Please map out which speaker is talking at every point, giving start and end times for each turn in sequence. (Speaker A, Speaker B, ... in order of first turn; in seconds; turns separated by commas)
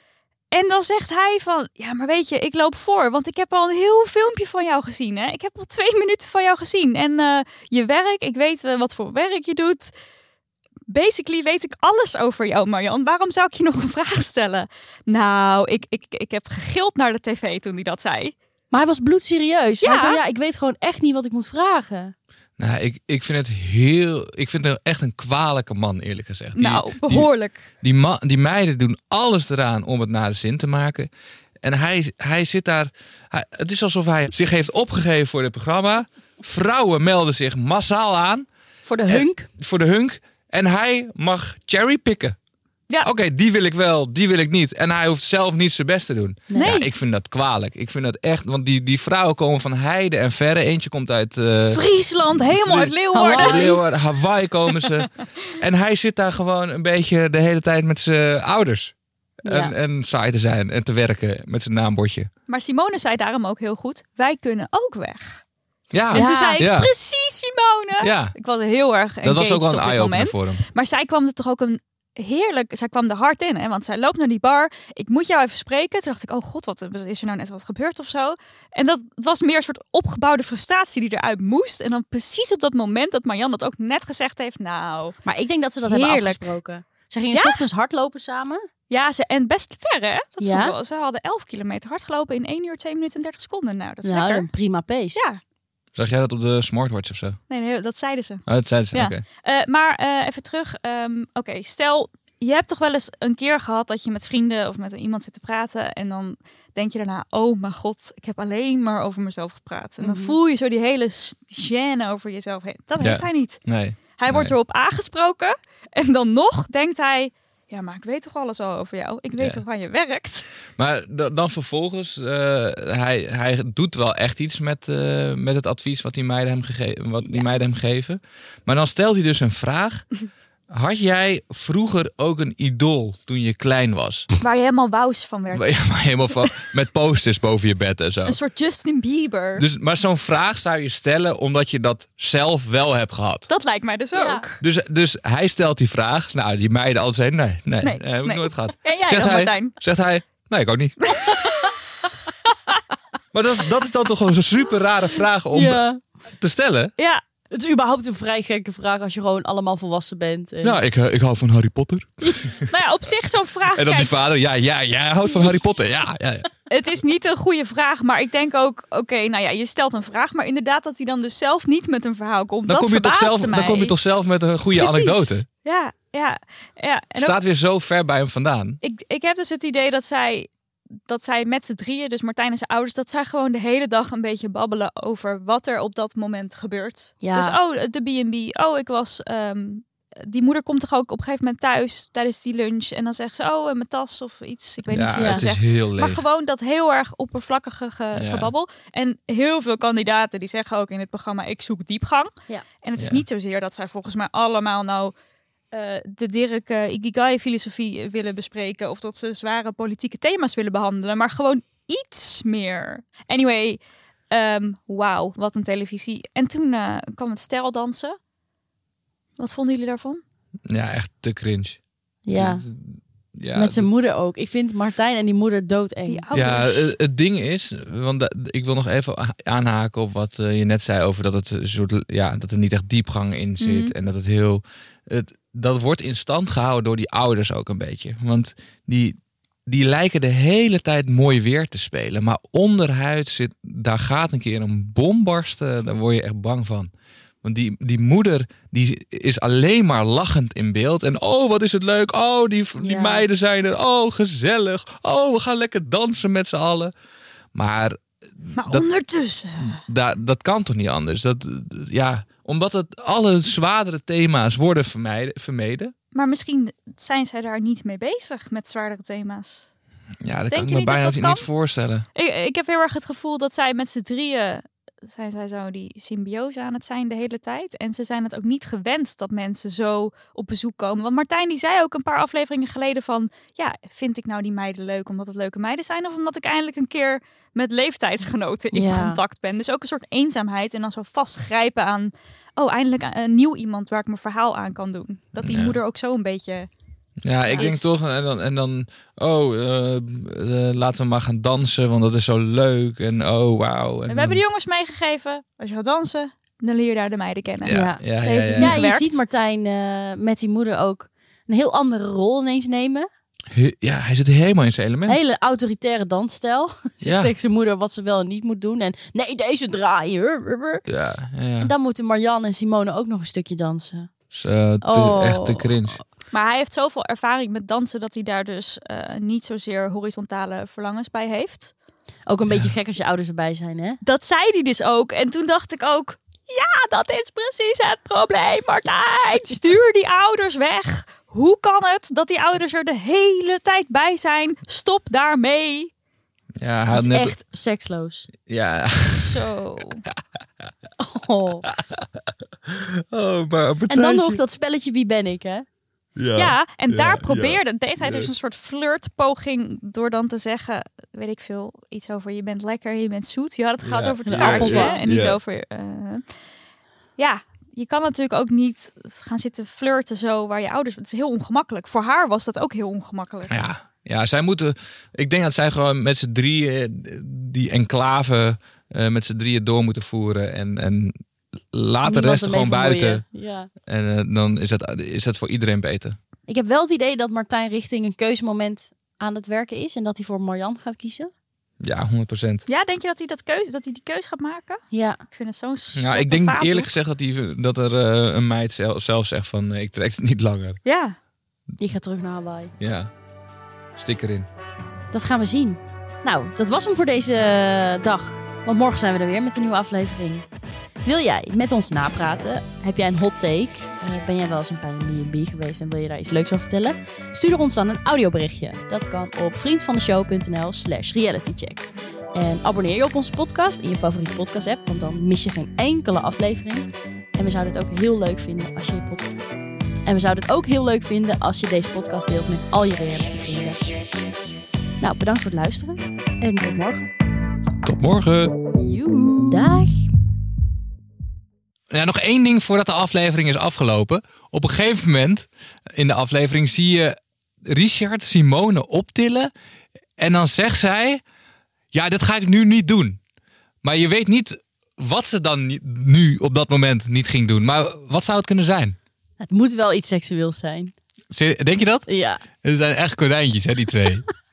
Speaker A: 0.5-9.9, Speaker A: 10.9-18.3, Speaker B: 18.7-22.1, Speaker A: 19.8-20.2, Speaker C: 22.6-27.3, Speaker A: 26.5-27.6, Speaker C: 27.8-31.1, Speaker C: 31.6-38.5, Speaker B: 38.9-39.5, Speaker C: 39.1-42.4, Speaker C: 43.0-62.3, Speaker B: 46.5-46.8, Speaker A: 46.5-46.9, Speaker A: 51.7-53.8, Speaker B: 53.1-53.8, Speaker B: 59.4-59.7, Speaker A: 62.5-65.4, Speaker C: 65.9-66.9, Speaker A: 66.1-85.2, Speaker B: 66.1-66.7, Speaker C: 68.0-68.3, Speaker C: 69.2-70.6, Speaker B: 85.2-88.6, Speaker A: 85.8-86.5, Speaker A: 87.3-87.6, Speaker A: 88.9-94.5, Speaker B: 90.4-90.8, Speaker B: 94.0-95.2, Speaker A: 95.1-95.4, Speaker C: 95.9-97.4, Speaker A: 97.5-113.6, Speaker C: 98.5-99.2, Speaker B: 110.0-110.3, Speaker C: 113.0-114.5, Speaker A: 114.2-120.5, Speaker C: 119.3-119.6, Speaker C: 120.8-130.1, Speaker C: 130.7-134.3, Speaker A: 134.4-136.4, Speaker C: 135.5-138.4, Speaker A: 138.2-139.6, Speaker C: 139.6-143.5, Speaker A: 143.5-144.6, Speaker B: 144.1-144.4, Speaker C: 144.6-151.3, Speaker A: 147.8-149.8, Speaker A: 151.0-152.8, Speaker C: 153.3-155.8, Speaker B: 155.5-156.0, Speaker C: 156.4-156.9, Speaker A: 157.0-157.2, Speaker B: 157.5-160.8, Speaker C: 160.6-162.7, Speaker A: 162.6-164.1, Speaker C: 163.7-166.5, Speaker A: 166.7-173.9, Speaker C: 172.7-175.4, Speaker A: 174.7-177.4, Speaker C: 177.2-178.8, Speaker A: 178.8-180.5, Speaker A: 181.1-202.3, Speaker B: 187.2-187.6, Speaker C: 194.9-196.2, Speaker B: 195.2-195.4, Speaker C: 198.1-198.5, Speaker A: 202.8-205.1, Speaker C: 203.0-203.2, Speaker A: 205.7-218.2, Speaker A: 219.4-220.2, Speaker C: 220.7-223.9, Speaker B: 222.2-222.6, Speaker B: 223.5-226.3, Speaker A: 226.1-226.9, Speaker C: 226.3-246.9, Speaker A: 233.6-233.9, Speaker C: 247.4-256.9, Speaker B: 252.8-253.3, Speaker C: 257.5-258.9, Speaker A: 258.5-259.8, Speaker C: 259.6-265.9, Speaker A: 266.1-269.7, Speaker C: 270.2-272.1, Speaker A: 270.5-271.5, Speaker A: 272.1-296.7, Speaker B: 288.7-289.2, Speaker C: 295.4-295.8, Speaker C: 297.2-304.4, Speaker B: 297.4-297.9, Speaker A: 297.5-297.8, Speaker A: 304.1-309.2, Speaker C: 307.6-308.8, Speaker B: 307.7-313.1, Speaker C: 313.5-315.2, Speaker B: 315.1-320.8, Speaker C: 317.0-317.3, Speaker C: 320.9-321.7, Speaker B: 321.6-324.1, Speaker C: 324.3-326.0, Speaker B: 324.8-325.8, Speaker A: 326.3-331.7, Speaker B: 332.3-334.0, Speaker A: 334.0-345.9, Speaker C: 346.6-347.4, Speaker B: 346.9-348.3, Speaker C: 348.4-349.4, Speaker A: 349.1-350.0, Speaker B: 351.0-351.7, Speaker C: 351.8-352.1, Speaker C: 352.7-354.4, Speaker B: 353.9-355.6, Speaker C: 356.1-358.3, Speaker A: 356.3-366.2, Speaker C: 363.8-365.4, Speaker B: 364.3-365.0, Speaker A: 367.2-373.5, Speaker C: 373.5-381.2, Speaker C: 381.7-383.2, Speaker B: 382.0-383.7, Speaker C: 383.9-386.2, Speaker B: 386.5-391.3, Speaker C: 391.8-392.6, Speaker A: 392.6-396.9, Speaker B: 394.9-395.2, Speaker C: 395.9-400.8, Speaker A: 400.8-401.1, Speaker B: 401.8-402.7, Speaker C: 402.8-403.1, Speaker C: 404.0-404.5, Speaker B: 405.1-410.4, Speaker B: 411.0-429.3, Speaker B: 430.0-433.8, Speaker B: 435.0-437.1, Speaker C: 437.8-438.6, Speaker A: 438.7-439.6, Speaker B: 439.5-440.1, Speaker C: 441.9-447.1, Speaker C: 447.6-449.5, Speaker C: 450.2-451.2, Speaker C: 451.9-453.2, Speaker C: 453.8-459.0, Speaker B: 459.4-460.9, Speaker C: 461.3-462.1, Speaker B: 462.1-462.4, Speaker C: 462.6-464.3